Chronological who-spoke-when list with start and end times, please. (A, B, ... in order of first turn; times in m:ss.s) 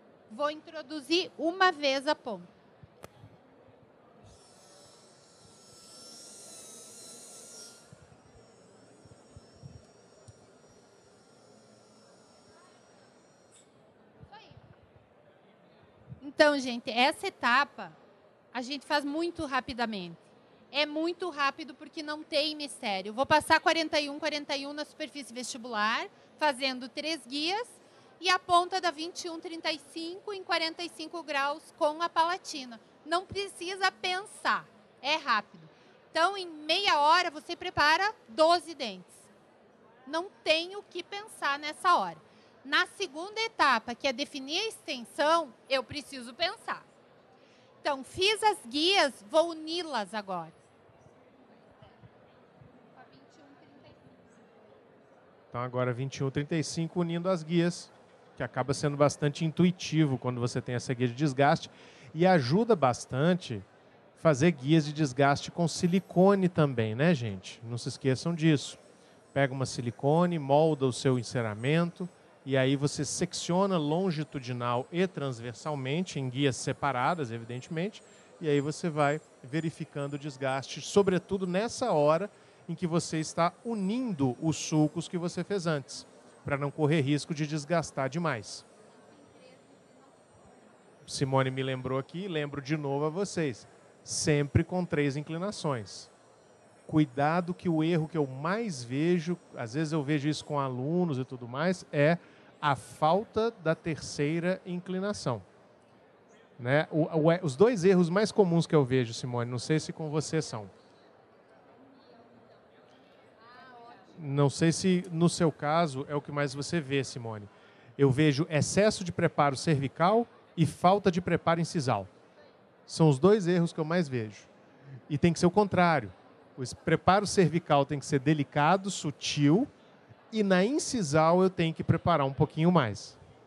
0:00.3-0:02.5 A
0:16.2-0:18.0 A
0:18.5-0:39.3 A
0:40.1-0:46.9 A
0:47.8-0:50.6 A
0:52.9-0:54.2 A
0:55.5-1:03.7 B
1:04.2-1:08.8 B
1:09.3-1:28.7 B
1:29.0-1:30.6 A
1:31.0-1:36.1 B
1:36.9-1:45.5 B
1:46.6-1:50.7 B
1:53.4-1:54.2 A
1:54.2-2:02.1 B
2:02.9-2:04.5 B
2:05.1-2:09.7 B
2:10.3-2:13.2 B